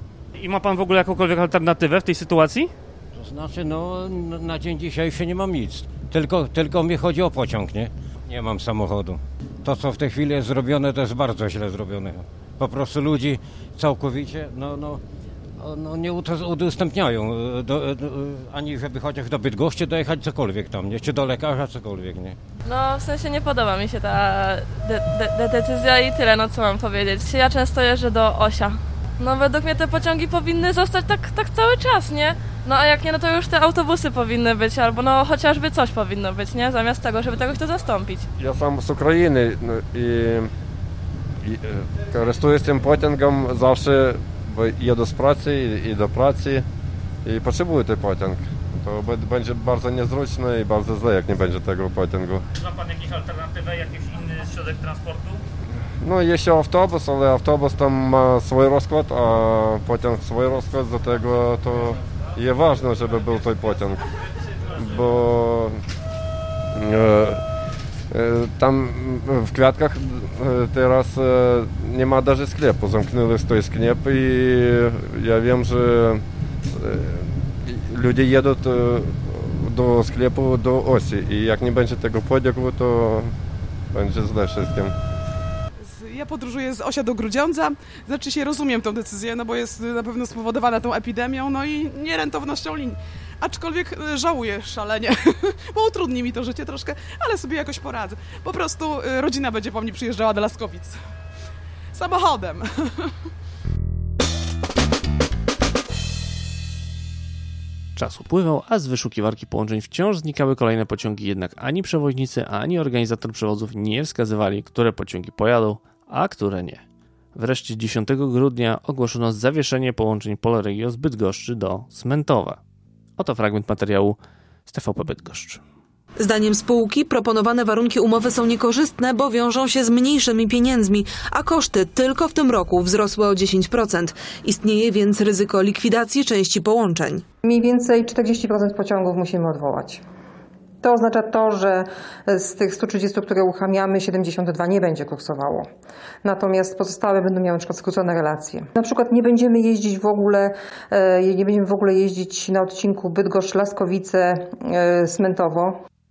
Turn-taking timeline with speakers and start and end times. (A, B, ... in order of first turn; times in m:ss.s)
0:00.4-0:02.7 A
0:03.1-0:15.0 B
0:15.6-0:22.4 B
0:22.6-0:38.3 C
0:38.4-0:40.5 D
0:41.4-0:46.6 D
0:47.2-0:52.4 D
0:52.6-0:55.4 A
0:56.0-1:04.0 D
1:04.7-1:05.8 D
1:06.7-1:07.4 D
1:08.1-1:23.3 D
1:23.9-1:24.9 D
1:25.8-1:41.0 E
1:41.9-1:43.3 E
1:48.0-1:56.8 F
1:57.4-2:02.6 F
2:03.2-2:05.6 F
2:06.2-2:17.2 G
2:17.4-2:20.0 H
2:20.8-2:25.7 H
2:26.2-2:35.8 H